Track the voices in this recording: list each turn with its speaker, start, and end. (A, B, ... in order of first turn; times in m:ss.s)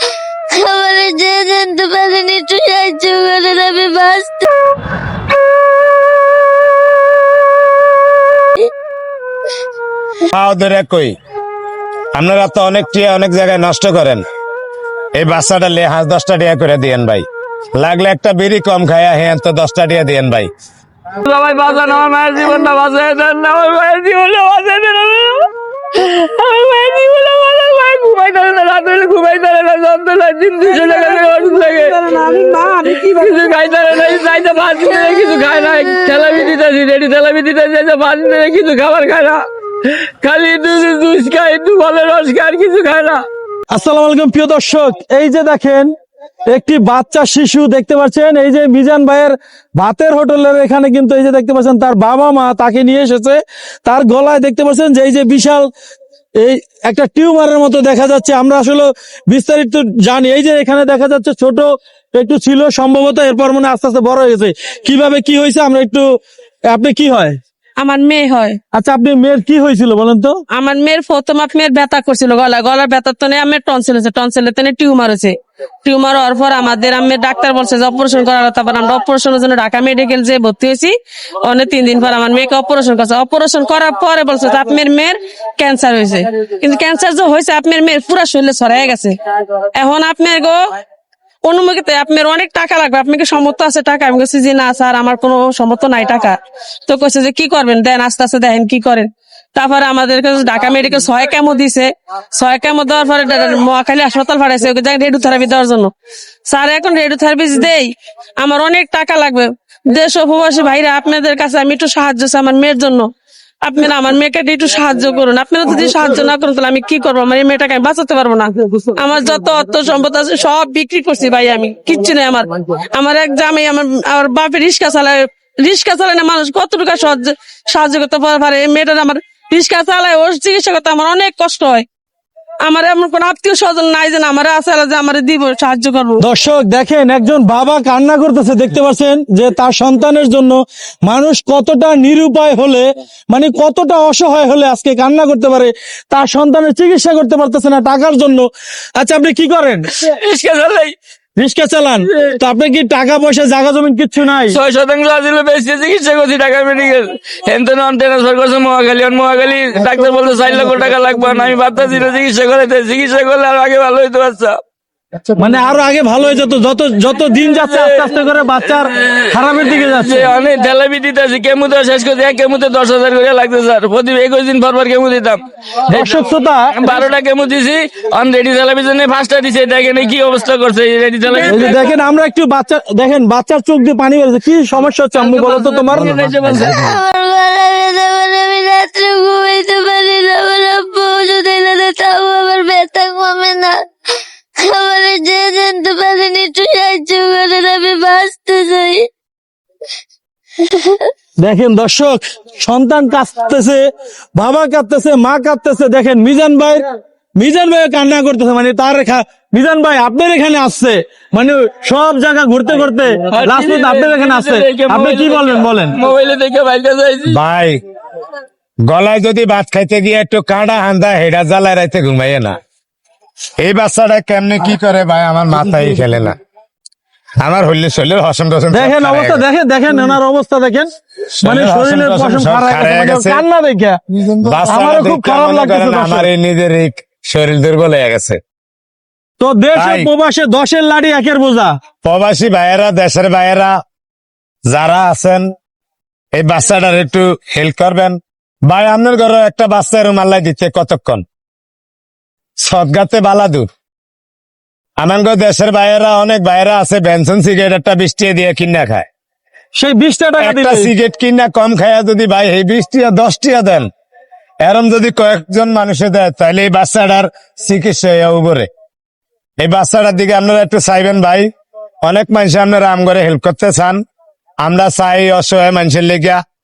0:00.5-0:04.5 A
0:10.3-0:11.1 B
0:12.1-0:14.2 B
0:15.1-0:20.5 B
0:21.2-0:31.9 C
0:30.7-0:33.5 D
0:33.0-0:43.2 C
0:43.7-0:45.9 E
0:46.4-0:55.7 E
0:56.4-1:07.4 E
1:07.8-1:08.6 D
1:08.7-1:10.4 E
1:10.5-1:30.6 D
1:31.4-1:45.9 D
1:46.4-1:53.1 D
1:53.6-2:11.8 D
2:12.6-2:16.2 D
2:16.2-2:29.9 E
2:30.0-2:30.9 C
2:31.4-2:34.6 E
2:34.5-2:44.6 C
2:45.4-2:50.3 E
2:47.5-2:48.1 C
2:49.1-3:01.9 C
2:55.9-2:56.7 E
3:01.4-3:06.8 E
3:05.2-3:06.9 C
3:06.9-3:13.9 A
3:14.6-3:19.1 A
3:20.6-3:21.1 A
3:21.4-3:26.8 E
3:27.4-3:36.0 E
3:33.3-3:37.4 C
3:37.3-3:37.8 B
3:38.8-3:42.6 B
3:43.6-3:46.4 B
3:47.4-3:49.4 B
3:48.7-3:50.9 E
3:51.4-3:53.4 B
3:51.4-3:56.3 E
3:54.4-3:58.4 B
3:59.4-4:01.7 E
3:59.7-4:00.1 B
4:02.0-4:03.8 B
4:04.7-4:05.4 B
4:06.3-4:11.2 B
4:12.6-4:13.7 B
4:15.0-4:19.0 B
4:19.7-4:20.9 E
4:20.4-4:23.9 B
4:24.6-4:28.7 B
4:29.6-4:31.5 B
4:32.0-4:34.0 B
4:34.6-4:36.4 B